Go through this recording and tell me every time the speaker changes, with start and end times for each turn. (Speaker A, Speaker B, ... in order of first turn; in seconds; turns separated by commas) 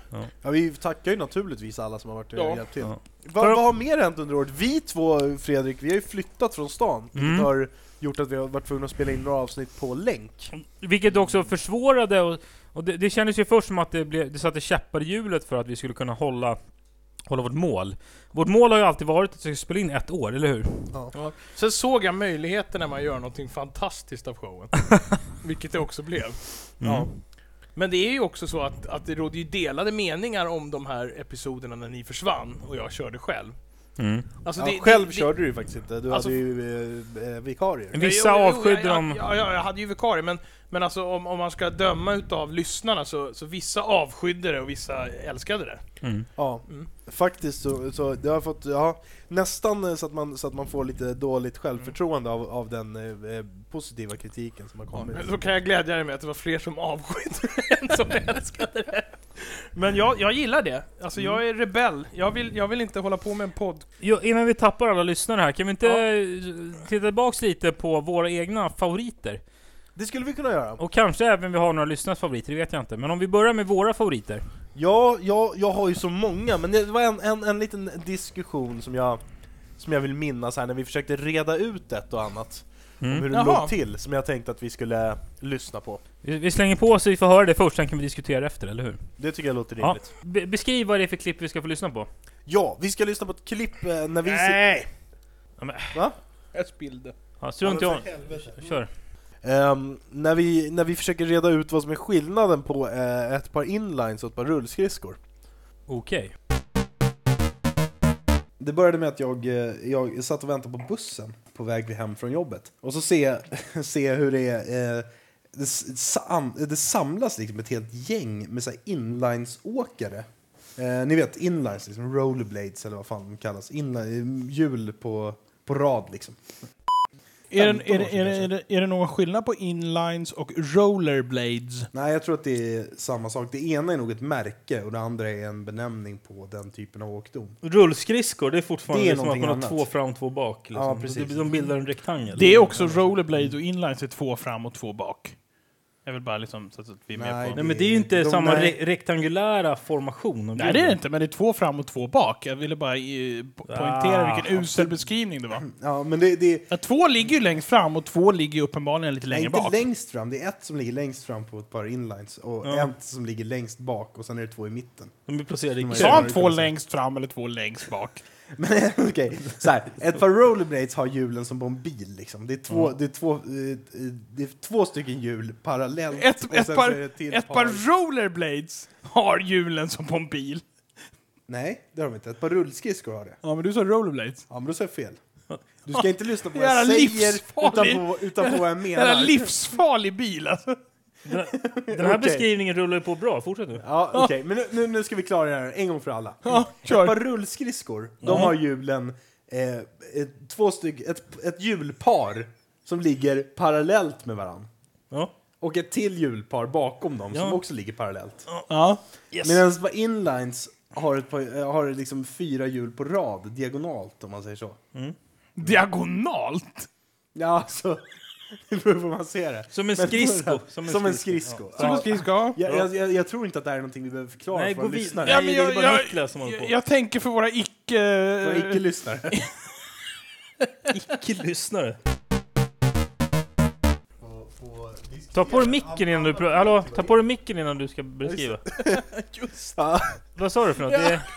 Speaker A: 0.3-10.5, Speaker B: 2.3-2.6, Speaker C: 2.8-3.6, Speaker C: 7.1-7.5, Speaker C: 10.5-16.6, Speaker C: 17.2-20.9, Speaker B: 21.1-26.6, Speaker C: 26.8-27.2, Speaker A: 26.8-27.1, Speaker B: 27.8-33.5, Speaker C: 34.0-34.3, Speaker B: 34.4-35.3, Speaker A: 34.6-37.9, Speaker B: 36.1-36.4, Speaker C: 37.9-39.2, Speaker B: 38.0-45.8, Speaker C: 46.0-46.3, Speaker A: 46.4-55.4, Speaker B: 54.9-63.9, Speaker C: 64.0-69.4, Speaker A: 69.9-70.8, Speaker C: 70.8-74.4, Speaker A: 74.7-79.2, Speaker A: 79.8-86.0, Speaker C: 83.0-83.3, Speaker B: 83.3-83.7, Speaker C: 86.2-89.1, Speaker A: 89.2-90.1, Speaker C: 89.8-92.1, Speaker A: 92.5-94.6, Speaker B: 94.2-94.9, Speaker C: 95.6-96.0, Speaker B: 96.5-97.1, Speaker C: 97.4-98.9, Speaker A: 97.6-98.8, Speaker A: 99.4-105.2, Speaker C: 105.9-106.3, Speaker A: 108.6-126.4, Speaker B: 127.5-131.9, Speaker A: 127.5-128.5, Speaker A: 131.9-137.6, Speaker C: 137.6-143.0, Speaker A: 138.9-139.9, Speaker A: 140.7-141.7, Speaker B: 142.3-145.3, Speaker A: 142.7-143.4, Speaker B: 146.1-147.6, Speaker A: 147.1-148.8, Speaker C: 147.5-151.0, Speaker B: 150.6-155.7, Speaker C: 153.7-154.8, Speaker A: 155.6-156.7, Speaker B: 156.7-159.8, Speaker A: 159.3-165.2, Speaker C: 162.6-162.9, Speaker C: 165.3-166.4, Speaker A: 165.8-166.7, Speaker B: 165.9-168.2, Speaker A: 168.5-177.8, Speaker B: 176.1-180.6, Speaker A: 181.5-183.4, Speaker B: 183.4-184.4, Speaker A: 184.5-185.2, Speaker A: 185.8-189.5, Speaker B: 185.9-190.8, Speaker C: 191.2-193.8, Speaker A: 191.5-192.5, Speaker A: 193.8-204.7, Speaker B: 196.4-197.2, Speaker C: 198.2-198.5, Speaker A: 205.6-208.5, Speaker C: 207.3-207.6, Speaker B: 208.7-209.0, Speaker C: 209.3-209.6, Speaker A: 209.4-214.8, Speaker B: 215.6-216.9, Speaker A: 217.3-225.4, Speaker C: 219.7-222.1, Speaker B: 221.8-222.6, Speaker C: 224.5-226.7, Speaker B: 225.2-229.6, Speaker A: 228.4-229.3, Speaker C: 230.9-232.0, Speaker A: 234.2-237.2, Speaker C: 235.3-238.6, Speaker A: 238.2-239.0, Speaker B: 238.7-239.8, Speaker A: 239.8-240.2, Speaker C: 240.3-241.3, Speaker B: 240.9-241.2